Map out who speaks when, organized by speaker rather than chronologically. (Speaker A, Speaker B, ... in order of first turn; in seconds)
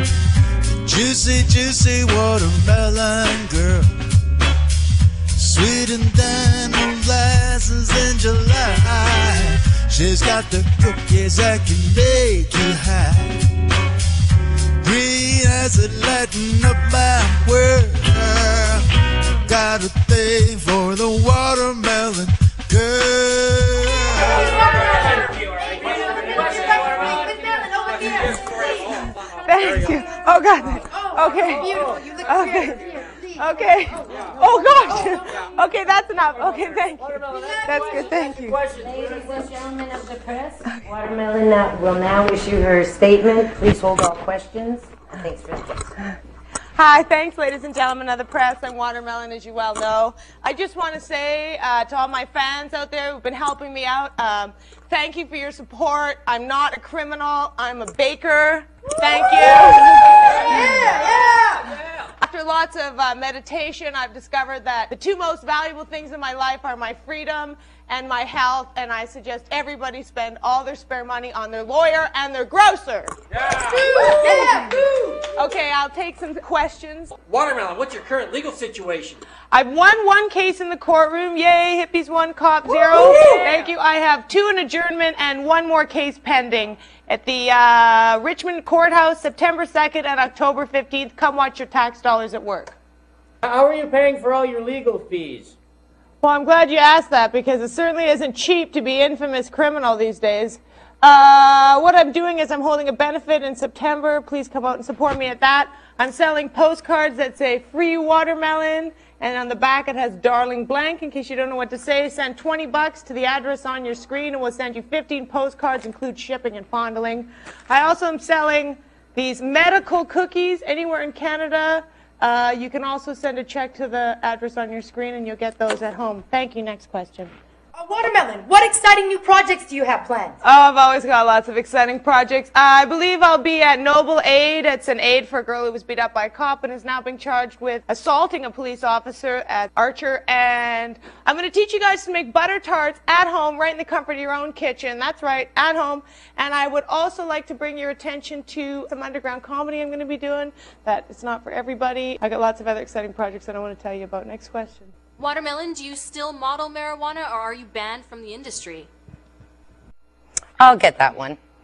Speaker A: 0.8-3.9, 5.4-13.4, 14.8-24.5
Speaker B: 24.3-28.7, 60.7-61.5, 73.7-75.1, 83.0-83.5, 127.8-130.4
Speaker C: 28.8-38.6, 46.8-61.5, 62.2-73.1, 73.8-74.8, 75.3-77.1, 79.5-92.8, 96.2-127.3, 130.4-154.9
Speaker D: 38.7-45.9, 160.6-161.4
Speaker E: 77.3-79.2
Speaker F: 155.2-158.9